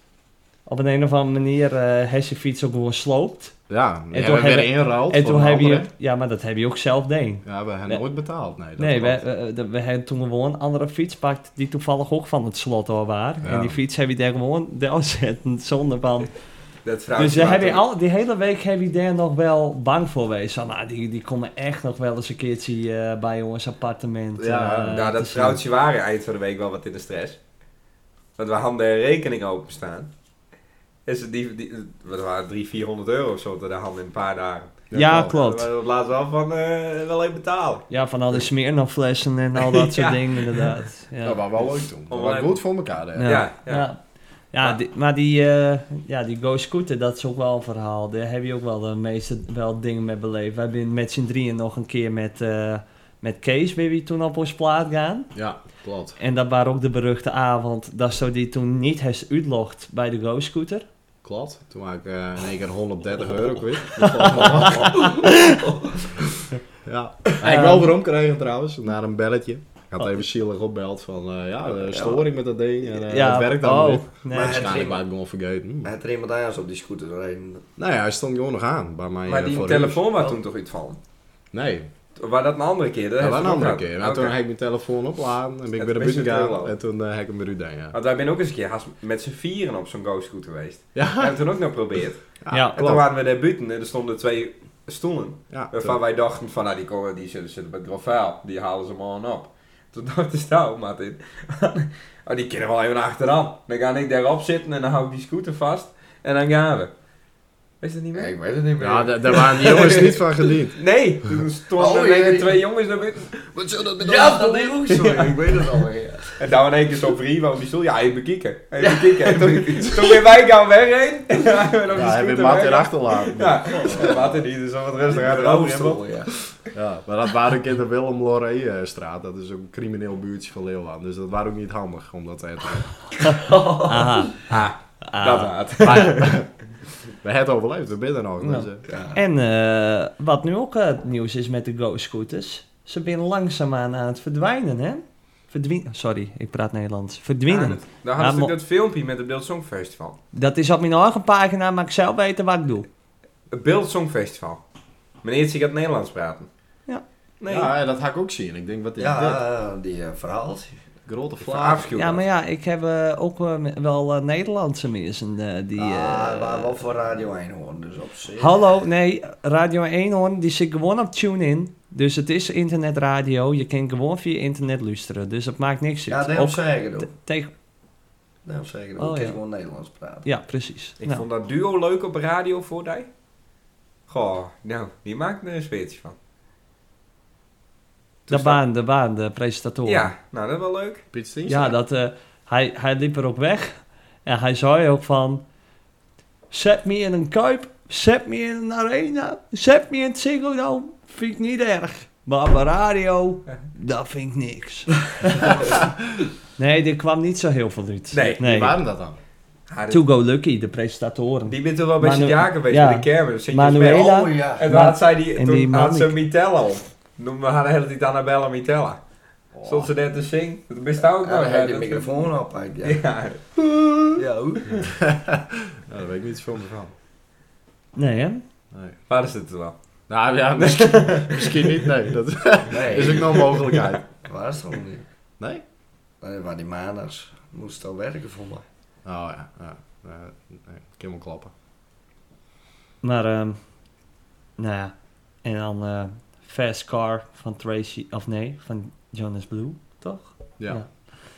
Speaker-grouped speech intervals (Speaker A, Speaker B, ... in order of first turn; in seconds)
Speaker A: 0.7-3.5, 4.1-8.0, 8.8-16.3, 17.1-25.6, 34.9-35.7, 37.9-41.4, 43.1-44.0, 44.5-55.3, 56.2-60.8, 64.0-65.6, 67.4-67.9, 73.1-74.7, 92.5-92.8, 133.8-134.4, 135.0-135.6, 138.4-148.5, 150.3-152.9, 161.9-166.7, 168.4-177.5, 179.0-179.4, 180.2-181.2, 188.3-190.1, 191.4-195.4, 196.5-205.6, 206.6-208.8, 209.9-216.1, 227.9-228.4, 243.0-243.6, 244.6-244.9, 245.4-251.1
Speaker B: 3.7-5.9, 7.4-9.2, 13.4-13.8, 24.4-25.0, 34.9-35.4, 41.2-43.4, 55.3-56.2, 61.2-65.2, 66.8-75.9, 77.8-80.0, 81.5-81.9, 83.2-87.9, 90.9-91.4, 92.4-93.0, 95.5-96.0, 108.8-110.8, 121.9-124.2, 126.7-133.3, 135.8-136.5, 137.2-138.8, 157.5-159.4, 161.1-161.9, 191.1-191.8, 208.4-209.2, 219.5-219.9, 225.0-226.9, 230.1-234.0, 239.0-241.5, 250.6-250.8
Speaker C: 16.8-17.8, 24.9-27.4, 28.4-30.1, 31.1-37.9, 39.6-40.2, 42.1-42.6, 43.2-43.9, 79.2-81.0, 82.2-84.3, 85.8-86.7, 87.9-106.9, 107.8-108.3, 109.4-115.3, 116.3-126.0, 134.5-136.4, 147.5-150.2, 153.5-154.6, 155.2-156.5, 157.4-157.7, 161.4-162.2, 181.0-183.1, 184.1-186.2, 188.2-188.6, 189.8-191.1, 208.1-208.4, 209.7-210.0, 211.5-219.0, 219.6-222.1, 222.8-223.6, 229.1-229.7, 230.6-231.8, 233.3-233.9
Speaker D: 65.0-65.8, 71.7-72.2, 74.3-75.0, 75.8-77.6, 108.1-109.6, 111.8-112.6, 113.5-116.3, 118.8-120.2, 123.8-124.4, 125.0-126.3, 133.4-134.2, 138.9-139.2, 159.0-160.8, 165.8-168.5, 176.1-177.1, 178.4-180.3, 213.8-214.6, 221.2-223.0, 224.2-224.9, 232.7-233.5, 234.2-235.0, 236.2-238.6